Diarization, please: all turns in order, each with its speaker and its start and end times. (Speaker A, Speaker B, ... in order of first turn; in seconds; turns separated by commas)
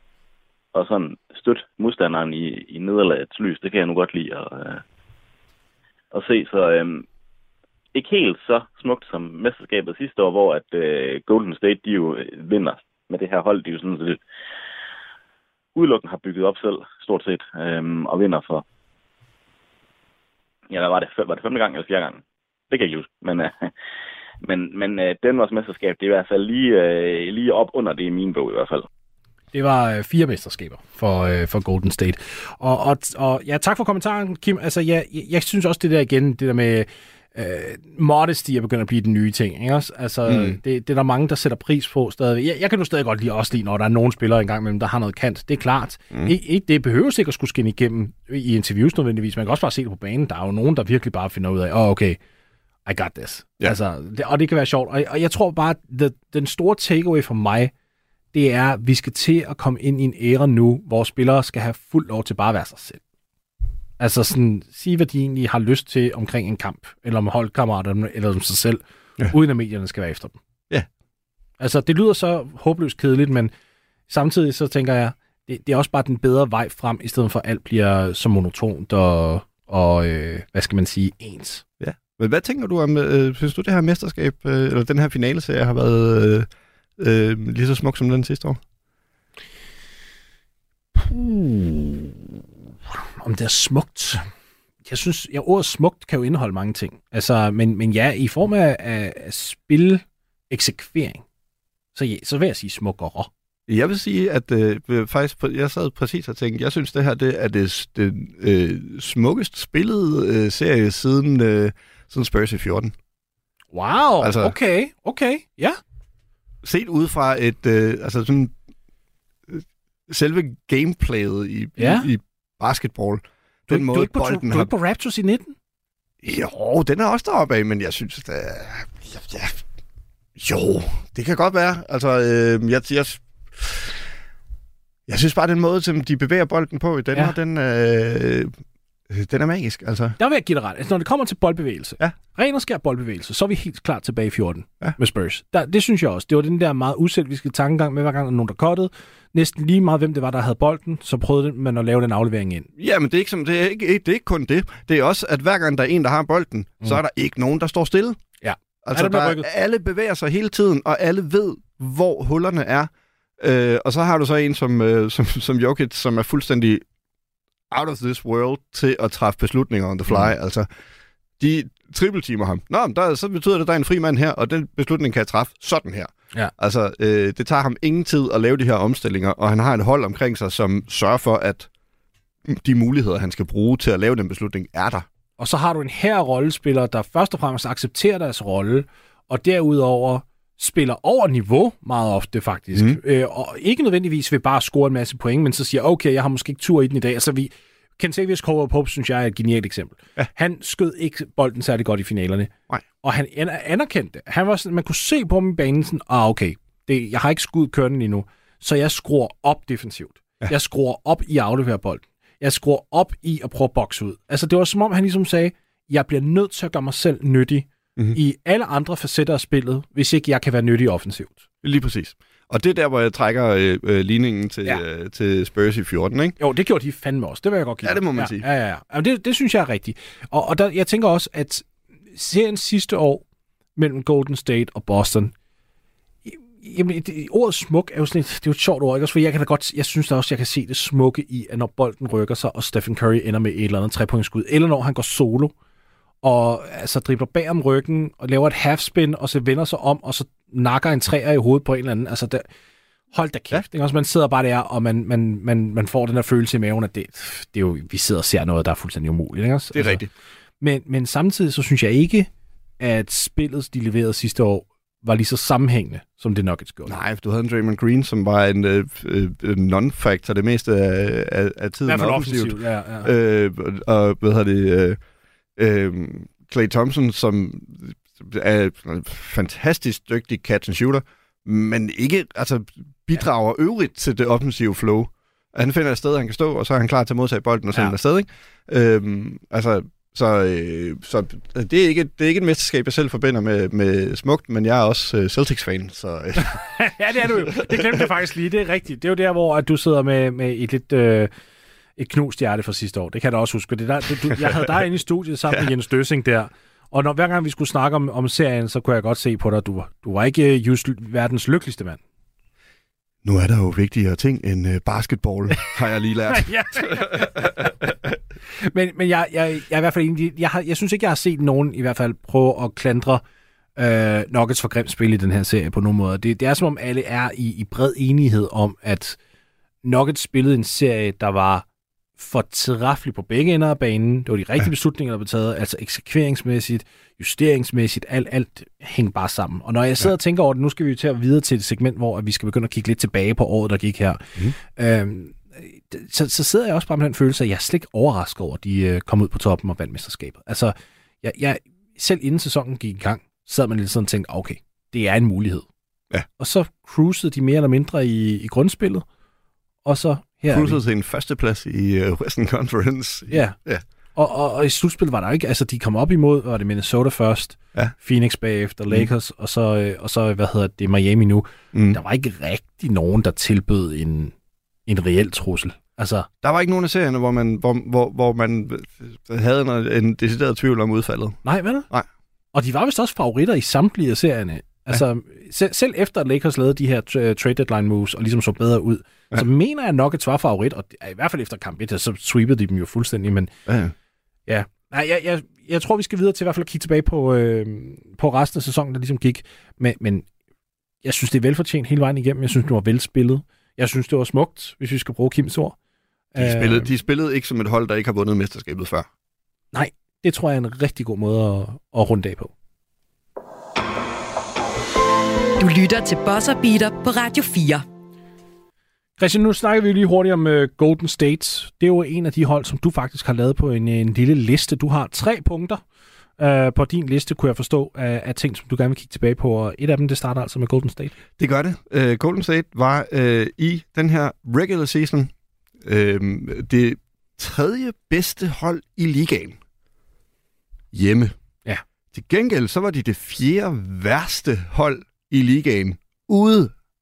Speaker A: 0.7-4.8, Speaker A: 6.1-7.0, Speaker A: 7.9-14.2, Speaker A: 15.8-18.6, Speaker A: 20.7-23.7, Speaker A: 24.4-28.9, Speaker B: 29.5-52.2, Speaker C: 40.2-40.6, Speaker B: 52.9-57.7, Speaker B: 58.3-63.0, Speaker B: 64.0-70.4, Speaker B: 71.6-73.5, Speaker B: 74.1-81.6, Speaker C: 81.8-88.6, Speaker B: 91.0-92.2, Speaker B: 93.2-94.2, Speaker B: 94.8-101.2, Speaker B: 101.9-103.3, Speaker C: 103.7-112.9, Speaker B: 113.7-115.8, Speaker C: 114.2-114.5, Speaker C: 116.6-118.5, Speaker C: 119.5-124.7, Speaker B: 121.8-122.1, Speaker B: 123.7-125.5, Speaker C: 126.2-129.6, Speaker C: 130.3-134.0, Speaker C: 135.1-138.5, Speaker C: 139.1-140.2, Speaker B: 140.2-152.7, Speaker C: 152.8-158.2, Speaker B: 158.4-159.4, Speaker C: 158.8-166.8, Speaker C: 167.7-170.7, Speaker C: 171.4-181.7, Speaker C: 182.4-185.1, Speaker B: 185.4-202.5, Speaker B: 203.0-221.4, Speaker C: 221.6-226.3, Speaker B: 226.4-233.2, Speaker C: 227.8-228.4, Speaker B: 233.8-235.3, Speaker B: 236.2-245.5, Speaker B: 246.2-252.4, Speaker B: 253.1-260.0, Speaker C: 259.7-260.1, Speaker B: 260.6-262.3, Speaker B: 262.8-266.9, Speaker C: 266.9-275.0, Speaker B: 271.9-273.1, Speaker C: 275.6-296.6, Speaker B: 296.4-301.3, Speaker C: 297.5-298.0, Speaker B: 302.0-312.0, Speaker C: 313.2-317.9, Speaker B: 316.3-317.7, Speaker B: 318.6-323.2, Speaker B: 323.8-329.2, Speaker B: 329.8-331.6, Speaker B: 332.2-355.7, Speaker B: 356.4-359.0, Speaker B: 359.8-360.8, Speaker C: 360.5-363.8, Speaker B: 363.3-363.6, Speaker B: 364.1-374.3, Speaker C: 371.7-372.0, Speaker B: 374.9-376.3, Speaker C: 376.4-382.1, Speaker B: 381.4-381.9, Speaker B: 382.5-393.5, Speaker C: 393.7-393.9, Speaker B: 394.5-400.3, Speaker B: 401.0-405.8, Speaker B: 406.3-406.9, Speaker C: 406.4-409.1, Speaker B: 409.7-412.5, Speaker D: 415.6-417.8, Speaker B: 419.2-425.8, Speaker B: 426.4-431.1, Speaker C: 431.4-435.3, Speaker C: 435.8-439.6, Speaker C: 440.9-441.4, Speaker C: 442.1-446.7